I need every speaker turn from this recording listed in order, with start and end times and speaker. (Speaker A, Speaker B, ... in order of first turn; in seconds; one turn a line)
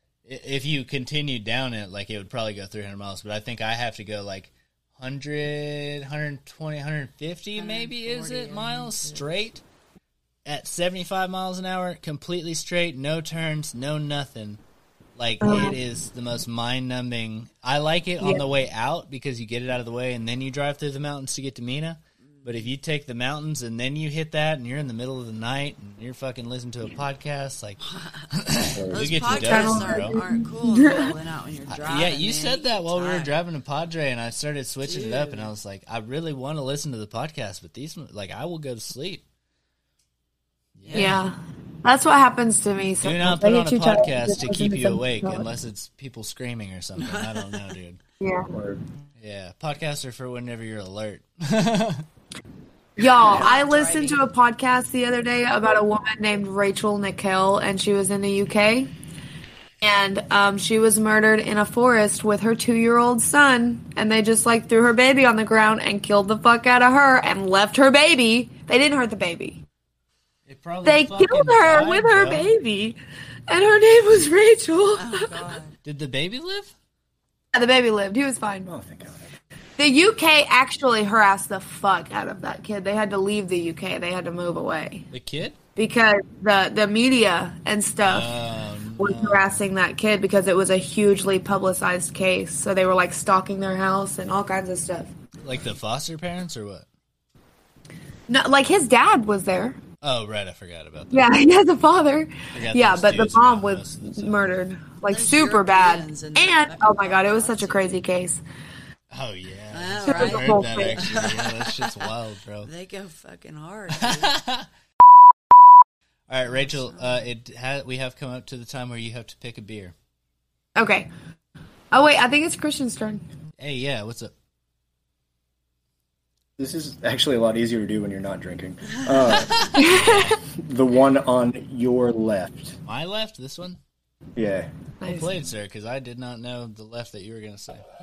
Speaker A: 0.2-9.6
Speaker B: 7.5-9.3
Speaker A: 10.4-14.6
Speaker A: 15.2-30.2
Speaker C: 15.4-15.7
Speaker B: 22.3-22.7
Speaker B: 27.8-28.3
Speaker D: 28.7-29.6
Speaker B: 28.9-33.3
Speaker C: 29.4-31.1
Speaker A: 31.7-39.2
Speaker B: 34.8-35.5
Speaker A: 40.8-41.2
Speaker B: 40.8-41.2
Speaker C: 40.9-45.5
Speaker A: 43.0-48.0
Speaker B: 47.0-47.6
Speaker C: 48.2-48.5
Speaker D: 48.5-48.8
Speaker A: 49.2-52.0
Speaker C: 53.0-58.9
Speaker B: 53.1-54.2
Speaker C: 59.8-69.6
Speaker A: 70.5-72.5
Speaker C: 70.8-73.0
Speaker C: 73.5-75.3
Speaker B: 74.9-75.8
Speaker A: 75.8-76.7
Speaker C: 77.5-78.7
Speaker D: 78.7-79.3
Speaker C: 79.8-85.0
Speaker A: 85.1-85.6
Speaker C: 85.8-88.3
Speaker A: 88.0-89.6
Speaker C: 89.0-95.1
Speaker A: 95.4-96.8
Speaker C: 98.3-99.8
Speaker A: 100.0-101.3
Speaker C: 101.1-108.4
Speaker A: 102.5-104.6
Speaker B: 105.1-108.0
Speaker A: 109.1-112.7
Speaker B: 109.7-112.1
Speaker C: 110.0-111.1
Speaker B: 112.6-114.3
Speaker A: 113.9-114.7
Speaker A: 116.3-119.9
Speaker B: 116.5-117.2
Speaker C: 120.8-121.1
Speaker C: 121.9-123.2
Speaker A: 123.6-124.3
Speaker D: 126.6-129.8
Speaker A: 129.4-130.4
Speaker C: 129.8-130.4
Speaker D: 130.5-132.8
Speaker A: 132.8-133.8
Speaker D: 134.3-134.7
Speaker C: 135.0-135.3
Speaker A: 135.0-137.8